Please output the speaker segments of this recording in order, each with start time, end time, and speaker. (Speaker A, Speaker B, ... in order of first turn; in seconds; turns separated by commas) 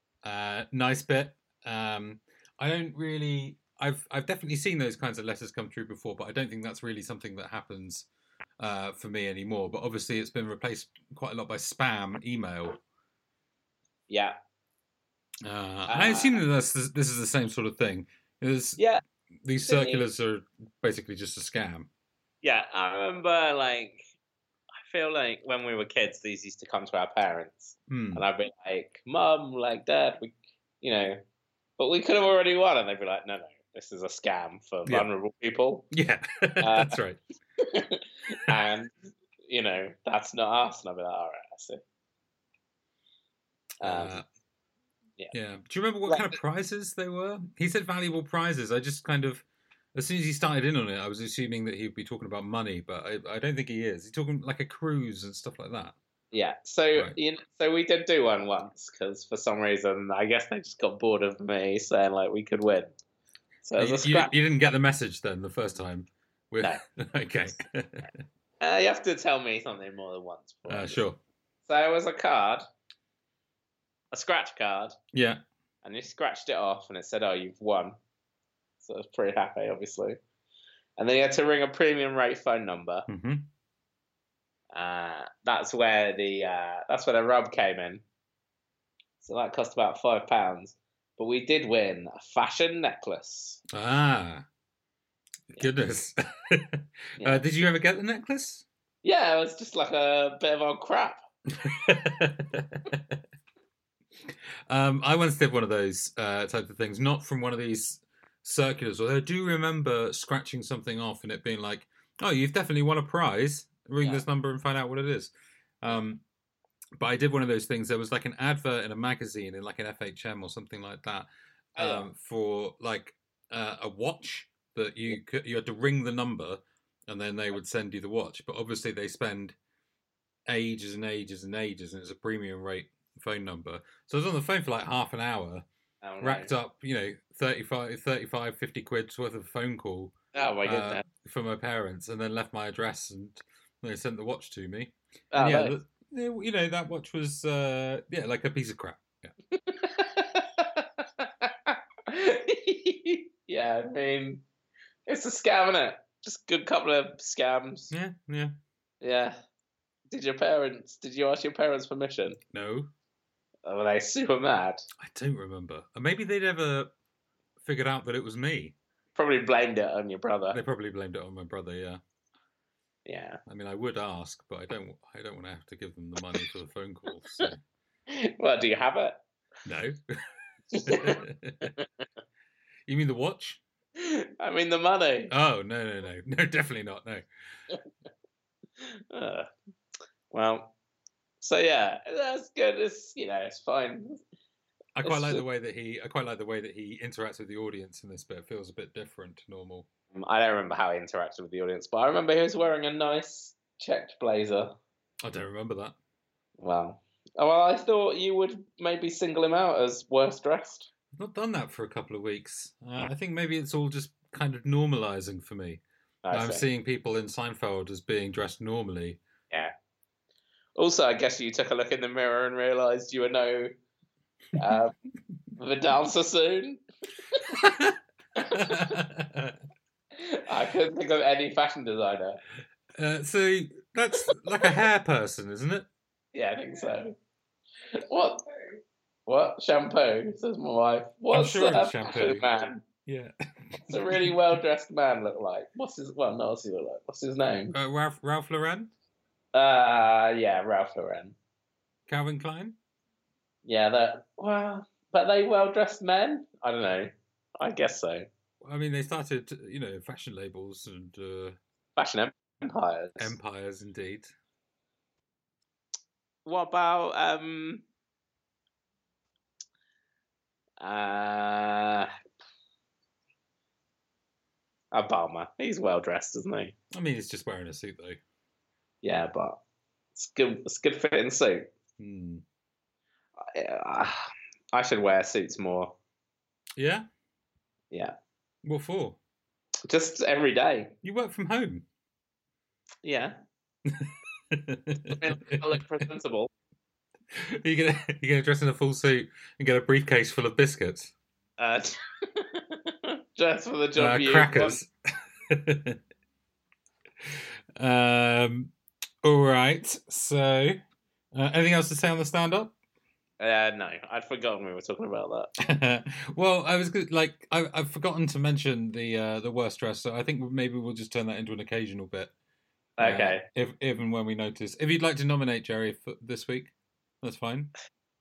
Speaker A: 0.2-8.1, Speaker A: 8.6-12.8, Speaker B: 14.1-14.4, Speaker A: 15.4-18.8, Speaker B: 15.9-16.4, Speaker B: 18.8-19.0, Speaker A: 19.4-21.9, Speaker B: 19.6-20.0, Speaker B: 22.4-24.0, Speaker B: 24.8-31.2, Speaker A: 27.9-28.2, Speaker B: 31.8-35.9, Speaker A: 35.9-37.2, Speaker B: 36.6-37.0, Speaker B: 37.6-41.8, Speaker B: 43.8-44.2, Speaker A: 43.8-44.2, Speaker A: 45.3-49.4, Speaker B: 46.1-46.4, Speaker A: 50.0-56.0, Speaker B: 56.3-62.9, Speaker B: 63.6-64.3, Speaker A: 63.8-68.2, Speaker B: 68.6-71.0, Speaker A: 70.7-71.2, Speaker B: 71.7-72.7, Speaker B: 74.1-75.0, Speaker A: 75.1-75.4, Speaker B: 75.8-78.0, Speaker B: 78.8-80.2, Speaker B: 81.0-83.1, Speaker A: 83.1-83.5, Speaker B: 84.7-88.0, Speaker B: 89.2-93.6, Speaker A: 93.7-94.5, Speaker A: 95.5-98.7, Speaker B: 99.0-101.2, Speaker A: 101.5-103.2, Speaker A: 104.7-116.2, Speaker A: 117.0-129.6, Speaker B: 121.8-122.1, Speaker A: 130.5-135.7, Speaker B: 136.0-136.5, Speaker A: 136.2-140.1, Speaker B: 140.3-141.0, Speaker A: 140.7-149.3, Speaker B: 145.3-145.8, Speaker B: 149.5-154.4, Speaker B: 155.1-157.9, Speaker A: 157.9-158.5, Speaker B: 159.0-159.4, Speaker B: 160.1-162.4, Speaker A: 162.5-162.9, Speaker B: 163.7-164.9, Speaker A: 165.0-166.9, Speaker A: 167.6-168.8, Speaker B: 169.2-170.6, Speaker A: 170.5-172.0, Speaker B: 173.1-173.4, Speaker A: 173.5-177.6, Speaker B: 178.1-179.2, Speaker A: 179.7-180.0, Speaker A: 180.7-181.7, Speaker B: 180.7-181.9, Speaker A: 182.9-183.6, Speaker B: 184.0-185.3, Speaker A: 185.3-187.2, Speaker B: 188.8-189.5, Speaker B: 190.3-190.7, Speaker B: 191.4-194.2, Speaker A: 194.9-199.9, Speaker B: 195.0-195.4, Speaker B: 200.1-204.8, Speaker A: 205.2-205.9, Speaker B: 206.6-210.9, Speaker A: 211.2-219.2, Speaker B: 216.2-216.6, Speaker B: 220.8-223.7, Speaker B: 224.6-224.9, Speaker B: 225.6-227.4, Speaker A: 227.5-228.0, Speaker B: 228.4-229.0, Speaker A: 228.5-229.6, Speaker B: 230.2-232.4, Speaker A: 233.0-235.9, Speaker B: 236.3-237.2, Speaker B: 237.9-238.4, Speaker B: 239.3-242.8, Speaker A: 241.3-242.5, Speaker A: 243.1-244.4, Speaker B: 243.9-247.7, Speaker A: 247.7-248.9, Speaker B: 249.5-251.4, Speaker A: 252.1-252.8, Speaker B: 253.7-258.3, Speaker A: 258.6-261.6, Speaker B: 262.0-263.4, Speaker A: 263.2-264.3, Speaker B: 266.4-267.8, Speaker B: 270.8-272.1, Speaker B: 274.9-276.7, Speaker A: 276.9-278.2, Speaker B: 279.0-279.6, Speaker B: 280.1-281.7, Speaker A: 282.0-282.4, Speaker B: 283.4-285.9, Speaker A: 286.8-287.1, Speaker A: 288.6-289.2, Speaker B: 289.9-291.0, Speaker A: 291.0-291.9, Speaker B: 293.0-293.4, Speaker A: 293.9-296.1, Speaker B: 295.1-296.5, Speaker A: 297.3-301.1, Speaker B: 301.6-304.8, Speaker A: 304.0-304.9, Speaker A: 305.5-306.0, Speaker A: 307.8-308.7, Speaker A: 309.2-310.8, Speaker A: 311.3-312.7, Speaker B: 313.4-315.5, Speaker A: 315.6-322.3, Speaker B: 323.0-323.4, Speaker A: 323.0-327.7